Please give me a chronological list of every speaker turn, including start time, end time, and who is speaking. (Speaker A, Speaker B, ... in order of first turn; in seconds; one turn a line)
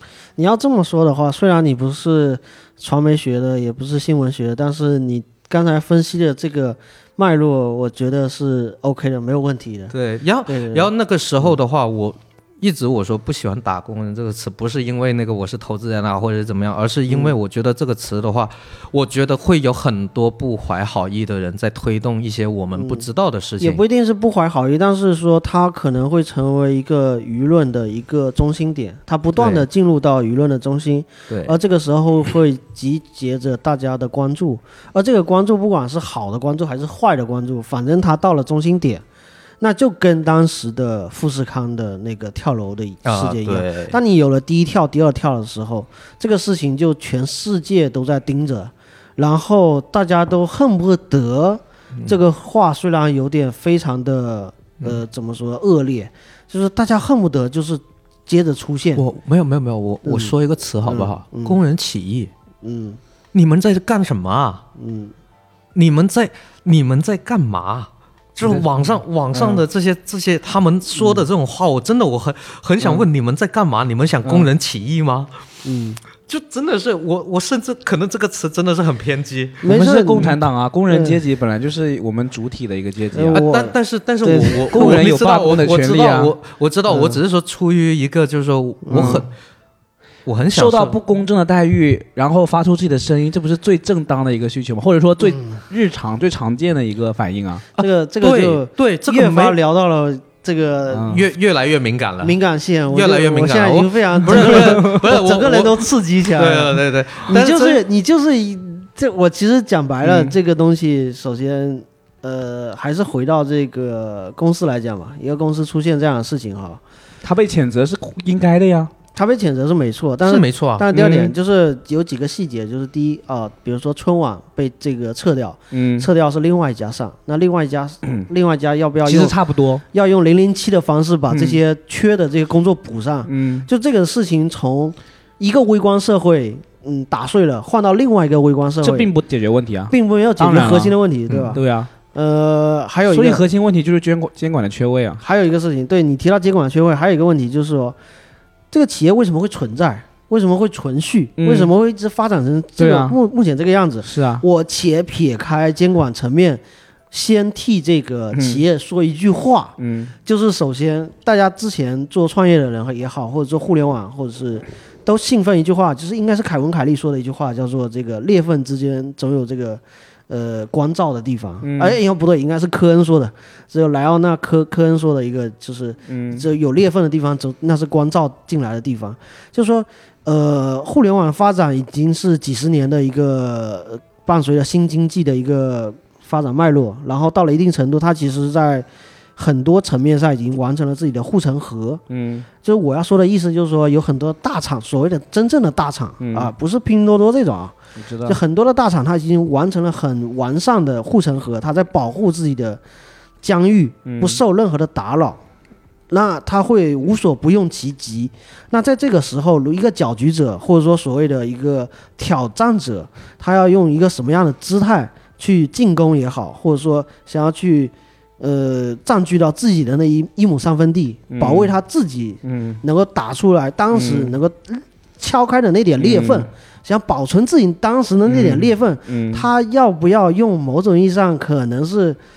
Speaker A: 0.4-9.9
Speaker B: 9.9-23.8
Speaker A: 10.4-10.9
Speaker A: 17.1-17.3
Speaker A: 22.7-23.1
Speaker A: 23.6-39.0
Speaker B: 29.4-29.6
Speaker B: 31.3-31.5
Speaker A: 39.6-59.0
Speaker B: 43.0-44.0
Speaker B: 59.0-62.3
Speaker A: 60.0-61.6
Speaker A: 62.6-63.0
Speaker B: 63.3-64.6
Speaker A: 64.8-65.1
Speaker B: 65.7-75.3
Speaker A: 71.0-71.2
Speaker C: 74.2-74.5
Speaker A: 75.6-76.0
Speaker B: 76.2-79.7
Speaker A: 79.6-81.2
Speaker C: 79.6-83.4
Speaker A: 83.1-84.9
Speaker B: 83.3-89.3
Speaker C: 84.7-86.3
Speaker A: 86.9-87.2
Speaker A: 88.8-89.2
Speaker C: 88.9-89.2
Speaker B: 90.2-91.0
Speaker C: 90.5-97.6
Speaker A: 97.8-101.1
Speaker B: 97.8-99.6
Speaker C: 100.9-101.2
Speaker B: 101.0-102.4
Speaker A: 102.2-116.8
Speaker B: 102.9-107.8
Speaker C: 104.2-105.0
Speaker C: 110.0-110.3
Speaker C: 117.2-118.9
Speaker A: 119.1-129.3
Speaker B: 120.2-120.9
Speaker C: 120.9-121.3
Speaker C: 125.7-126.1
Speaker C: 129.0-129.8
Speaker A: 129.9-139.1
Speaker C: 131.3-131.6
Speaker C: 133.2-133.7
Speaker C: 138.8-141.9
Speaker A: 139.9-141.6
Speaker A: 142.1-143.4
Speaker C: 143.1-145.2
Speaker A: 145.2-147.9
Speaker A: 148.7-192.0
Speaker C: 151.4-151.7
Speaker C: 152.8-153.2
Speaker C: 154.0-154.4
Speaker C: 158.3-158.6
Speaker C: 159.8-160.1
Speaker C: 171.6-172.0
Speaker C: 176.1-176.4
Speaker C: 192.1-192.5
Speaker A: 192.6-202.8
Speaker C: 196.2-196.5
Speaker C: 197.9-198.4
Speaker A: 203.4-205.4
Speaker C: 204.1-204.4
Speaker A: 206.1-232.2
Speaker C: 221.3-221.7
Speaker C: 222.4-222.8
Speaker C: 223.9-224.3
Speaker C: 226.0-226.5
Speaker C: 228.2-229.5